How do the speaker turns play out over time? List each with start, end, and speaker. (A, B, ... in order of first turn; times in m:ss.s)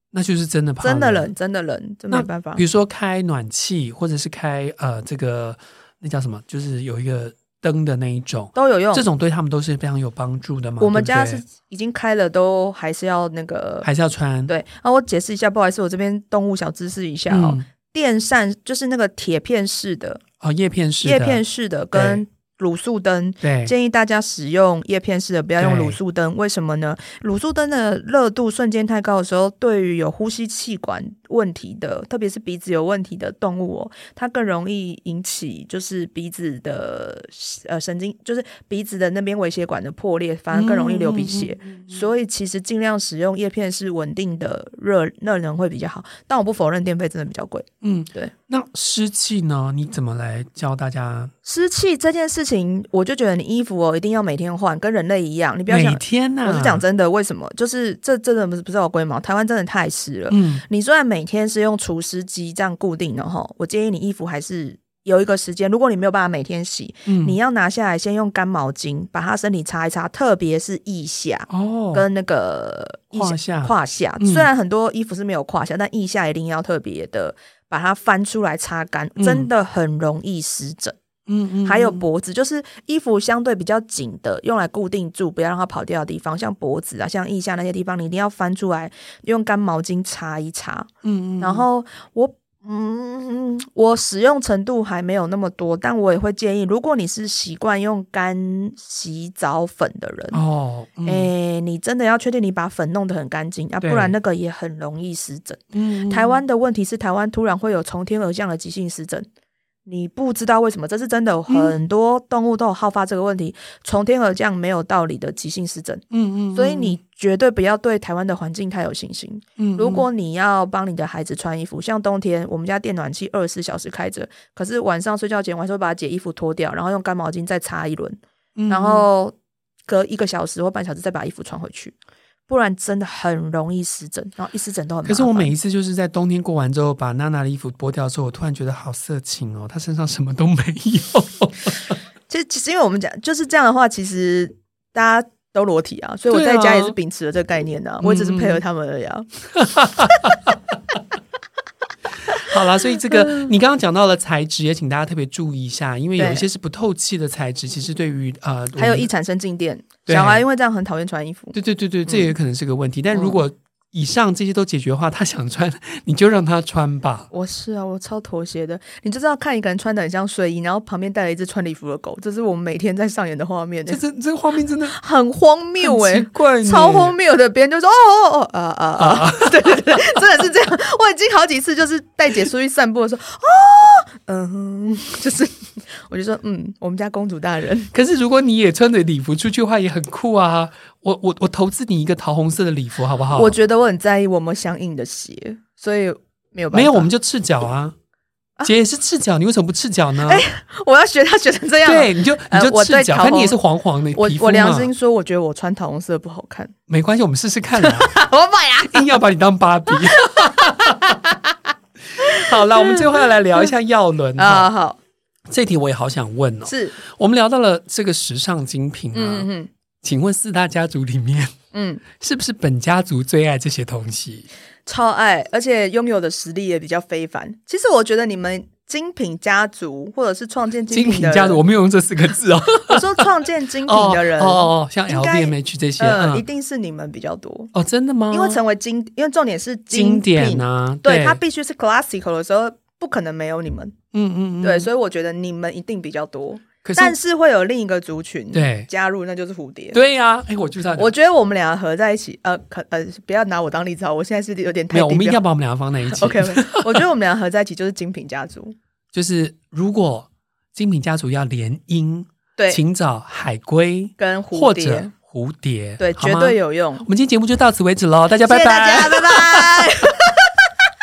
0:00.1-0:01.3 A
0:00.8-0:02.6 B
0:02.1-0:11.4 A
0:08.5-0:09.0 B
0:10.8-0:13.9 B
0:13.8-0:14.5 A
0:14.5-0:20.2 B
0:17.3-0:17.6 A
0:20.4-0:22.2 A
0:21.0-0:48.3 B
0:23.4-0:23.7 A
0:25.6-0:26.0 A
0:40.5-0:42.0 A
0:47.8-0:51.3 A
0:51.4-1:21.0 B
0:55.7-0:56.8 A
1:00.3-1:00.6 A
1:07.1-1:07.4 A
1:11.5-1:12.0 A
1:13.1-1:14.5 A
1:19.2-1:19.5 A
1:21.3-1:22.0 A
1:21.6-1:30.9 B
1:31.0-1:31.6 A
1:31.4-1:40.4 B
1:40.3-1:41.3 A
1:41.0-1:49.3 B
1:43.8-1:44.1 A
1:45.7-1:46.4 A
1:49.8-2:09.3 B
1:51.5-1:51.8 A
1:56.1-1:57.0 A
1:59.6-2:00.0 A
2:08.6-2:09.0 A
2:09.8-2:11.9 B
2:12.5-2:15.5 B
2:15.0-2:21.9 A
2:22.3-2:29.3 B
2:26.3-2:27.0 A
2:28.0-2:28.6 A
2:29.6-2:30.5 A
2:30.0-2:30.4 B
2:32.3-2:39.1 A
2:32.3-2:33.5 B
2:36.2-2:36.5 B
2:38.8-2:42.3 B
2:40.0-2:40.4 A
2:41.5-2:47.3 A
2:43.1-2:43.4 B
2:47.3-2:54.0 B
2:53.9-2:55.0 A
2:54.9-3:07.9 B
2:55.8-2:57.1 A
2:59.0-3:00.2 A
3:07.9-3:13.5 A
3:13.3-3:17.1 B
3:16.7-3:17.9 A
3:18.6-3:20.4 A
3:20.2-3:23.6 B
3:21.8-3:24.9 A
3:24.1-3:26.7 B
3:26.9-3:28.1 A
3:27.8-3:29.2 B
3:28.8-3:31.2 A
3:29.9-3:31.6 B
3:32.1-3:34.7 A
3:32.2-3:33.6 B
3:34.4-3:35.0 B
3:35.5-3:39.5 A
3:36.6-3:37.0 B
3:39.1-3:39.7 B
3:40.0-3:41.5 A
3:41.7-3:42.0 B
3:42.2-3:44.5 A
3:44.8-3:51.6 B
3:50.9-3:53.3 A
3:52.9-3:57.7 B
3:53.8-3:56.4 A
3:57.7-3:58.6 A
3:58.3-4:04.0 B
3:59.9-4:01.4 A
4:04.1-4:04.9 A
4:04.6-4:10.0 B
4:06.8-4:07.2 A
4:08.5-4:08.9 A
4:09.9-4:11.1 A
4:11.0-4:15.4 B
4:14.9-4:17.0 A
4:16.1-4:18.8 B
4:19.1-4:30.1 A
4:24.2-4:25.1 B
4:26.0-4:27.0 B
4:28.4-4:30.5 B